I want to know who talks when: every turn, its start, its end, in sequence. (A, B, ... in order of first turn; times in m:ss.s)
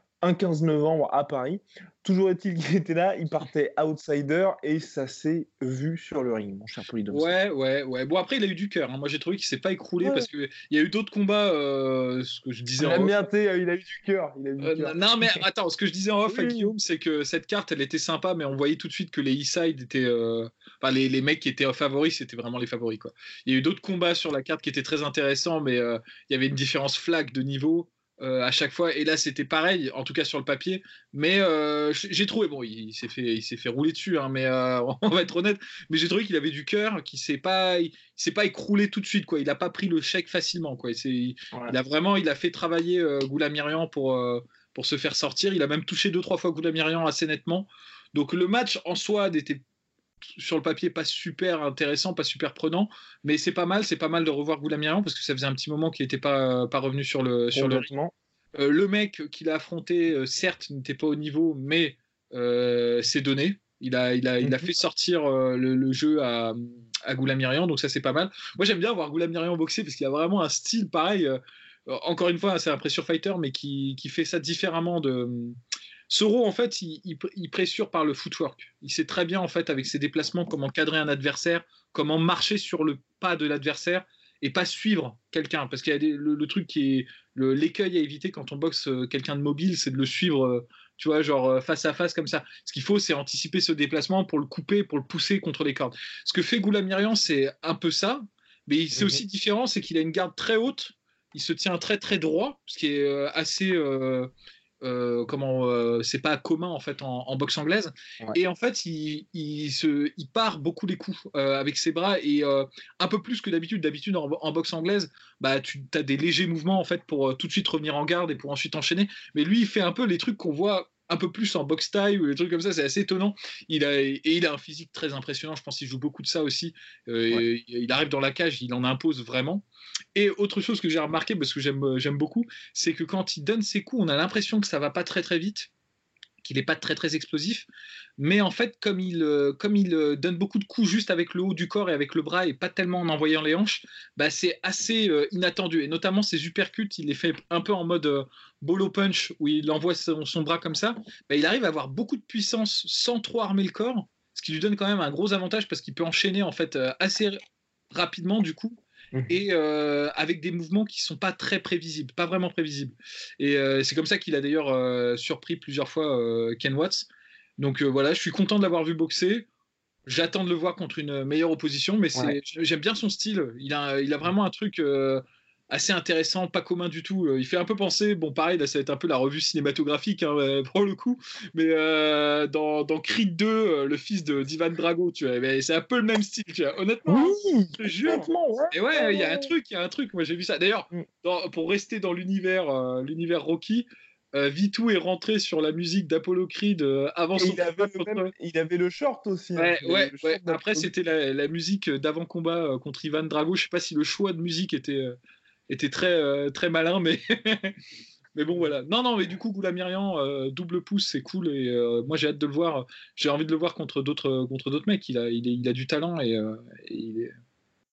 0:00.2-0:07.3 A
0:07.1-0:13.2 B
0:10.0-0:10.3 A
0:12.8-0:15.4 A
0:14.6-0:49.6 B
0:16.2-0:16.7 A
0:50.4-0:57.9 B
0:57.5-0:58.1 A
0:58.6-1:15.6 B
1:04.4-1:04.7 A
1:16.1-1:44.3 B
1:38.9-1:39.2 A
1:44.8-2:15.7 B
2:16.4-2:17.7 B
2:18.2-2:37.4 B
2:37.9-2:49.5 B
2:39.1-2:39.4 A
2:50.1-3:18.3 B
3:07.0-3:09.5 A
3:17.3-3:20.9 A
3:19.5-3:25.2 B
3:25.7-3:27.8 B
3:28.3-3:37.3 B